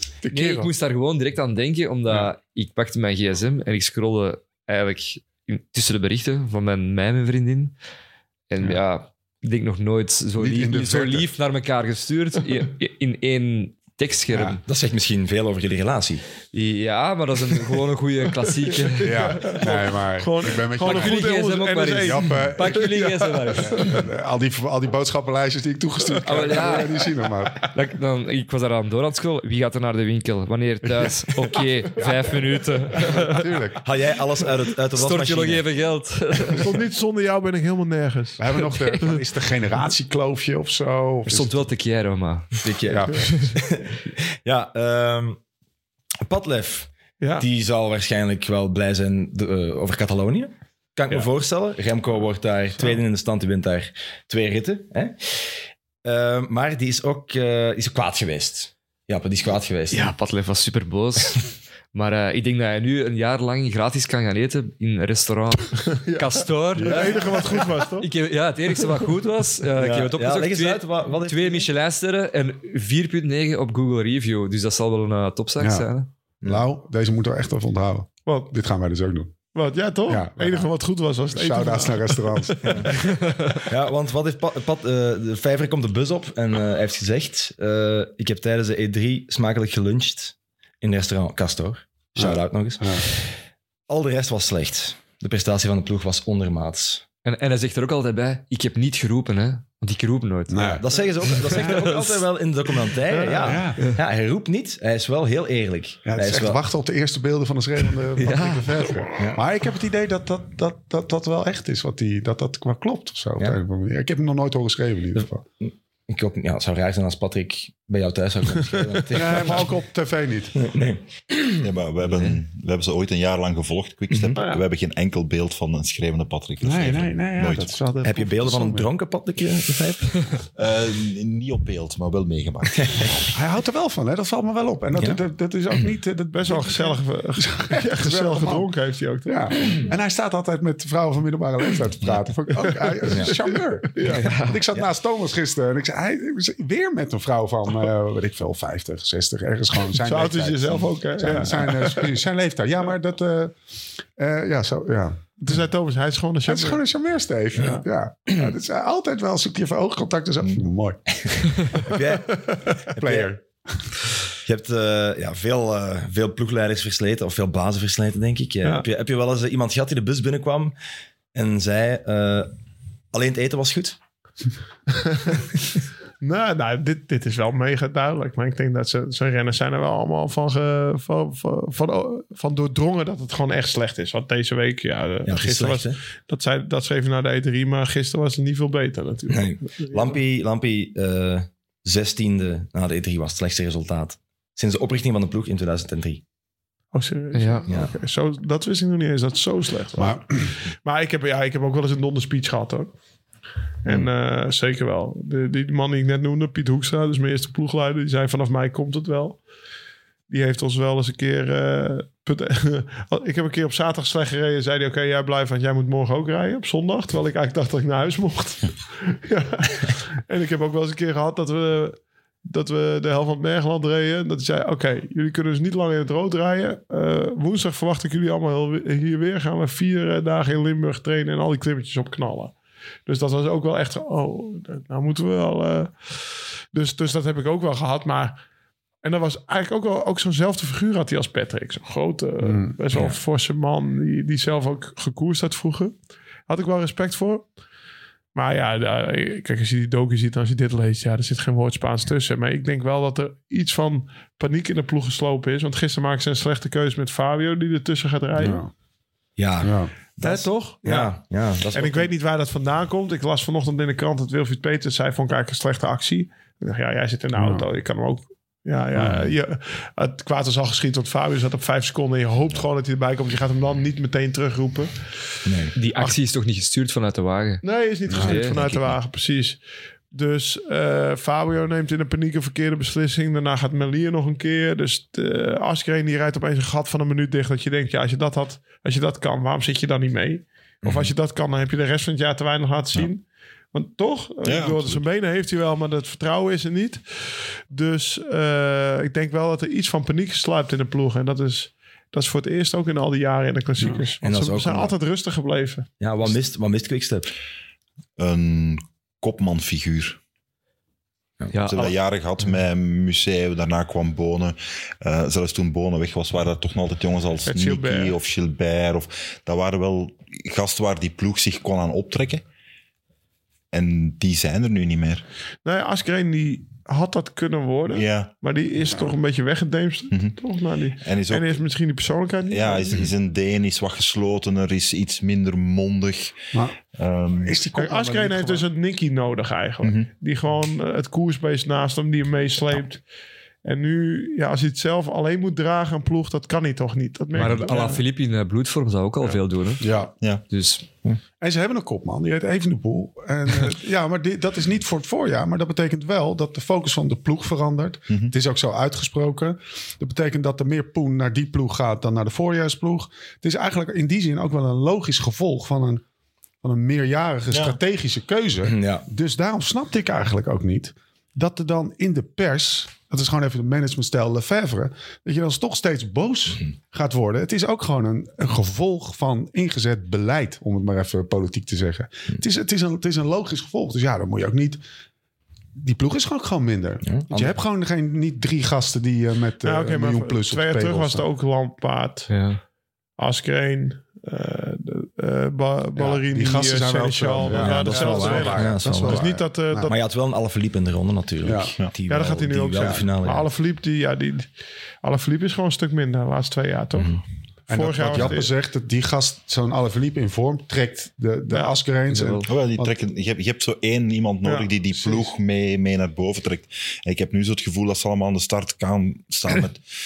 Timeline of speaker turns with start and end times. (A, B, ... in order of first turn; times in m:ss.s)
0:00.2-0:00.7 A
0:00.3-0:07.7 B
0:08.5-0:14.6 B
0:10.4-0:11.3 A
0:14.3-0:14.6 A
0:14.7-0:16.2 C
0:16.5-0:19.7 B
0:18.7-0:24.0 D
0:19.0-0:21.3 A
0:20.8-0:24.0 B
0:22.0-0:23.0 A
0:23.6-0:27.7 A
0:26.1-0:26.6 D
0:26.2-0:27.0 B
0:27.7-0:33.5 B
0:33.1-0:33.8 A
0:33.8-0:35.7 C
0:34.9-0:36.8 B
0:36.5-0:39.2 D
0:38.4-0:41.7 A
0:38.7-0:39.0 B
0:41.3-0:43.5 B
0:42.6-0:45.4 C
0:42.8-0:43.6 A
0:46.2-1:00.1 C
0:47.2-0:47.5 D
0:59.9-1:16.1 B
1:06.0-1:08.1 D
1:06.8-1:07.2 A
1:09.8-1:11.6 C
1:15.6-1:15.9 A
1:16.4-1:19.4 A
1:19.5-1:22.8 D
1:20.1-1:20.7 A
1:21.3-1:23.0 A
1:22.6-1:22.9 C
1:23.6-1:37.0 C
1:32.2-1:33.0 A
1:37.2-1:42.1 B
1:40.5-1:40.8 A
1:40.8-1:46.6 C
1:43.1-1:43.6 D
1:43.4-1:43.8 A
1:46.1-1:55.4 A
1:48.2-1:49.1 B
1:55.2-1:59.7 C
1:59.1-2:00.6 A
1:59.2-1:59.6 D
2:00.6-2:02.4 C
2:01.6-2:07.8 E
2:04.1-2:04.4 C
2:04.4-2:04.6 D
2:06.6-2:07.9 A
2:07.6-2:08.9 D
2:08.0-2:10.3 C
2:10.6-2:13.4 E
2:12.8-2:13.2 C
2:13.4-2:18.7 A
2:15.0-2:15.2 C
2:16.3-2:19.9 D
2:19.2-2:33.6 A
2:24.0-2:24.3 D
2:24.1-2:24.6 B
2:29.9-2:32.1 D
2:34.2-2:35.2 A
2:35.4-2:36.8 D
2:36.4-2:41.2 A
2:37.6-2:37.8 D
2:41.1-2:43.3 C
2:43.0-2:43.9 A
2:44.4-2:50.7 C
2:51.3-2:52.5 C
2:53.1-2:54.0 C
2:54.9-2:55.6 D
2:56.2-3:10.2 D
3:05.2-3:06.0 C
3:09.3-3:16.2 C
3:16.9-3:22.9 D
3:17.3-3:17.7 B
3:17.7-3:17.9 C
3:20.0-3:20.5 A
3:23.8-3:29.4 D
3:30.3-3:52.6 D
3:53.1-3:58.4 D
3:59.0-4:07.5 D
4:02.4-4:02.8 A
4:08.3-4:18.6 D
4:18.4-4:18.7 A
4:19.4-4:22.1 C
4:19.6-4:19.9 A
4:20.2-4:21.2 D
4:21.7-4:35.1 D
4:27.3-4:27.7 A
4:29.0-4:29.3 A
4:35.4-4:35.7 C
4:35.8-4:38.6 B
4:37.6-5:05.9 D
4:38.1-4:38.4 A
4:38.6-4:38.9 C
4:50.8-4:51.1 C
4:54.4-4:55.0 E
5:04.2-5:05.0 C
5:06.0-5:07.3 C
5:08.2-5:10.2 E
5:11.4-5:11.8 C
5:11.5-5:11.9 B
5:11.6-5:22.4 E
5:17.5-5:18.2 D
5:23.7-5:25.2 E
5:25.6-5:33.1 D
5:27.9-5:28.4 E
5:30.1-5:30.4 E
5:31.0-5:31.6 E
5:32.5-5:37.6 E
5:37.4-5:38.7 A
5:37.7-5:43.0 D
5:39.8-5:40.1 E
5:43.6-5:48.0 D
5:47.3-5:48.0 A
5:47.3-5:49.9 B
5:49.8-5:50.1 A
5:50.5-5:50.9 B
5:51.4-6:06.0 A
6:06.6-6:24.8 A
6:07.5-6:07.8 E
6:08.7-6:09.0 C
6:25.8-6:31.3 A
6:27.0-6:27.6 C
6:29.6-6:32.3 D
6:32.3-6:32.6 B
6:33.2-6:40.0 D
6:36.0-6:39.9 A
6:37.4-6:43.5 C
6:41.4-6:41.7 A
6:42.1-6:48.5 D
6:47.0-6:47.2 C
6:47.7-6:52.9 A
6:51.5-6:51.8 D
6:52.1-6:52.5 B
6:52.5-6:59.9 E
6:54.9-6:55.3 A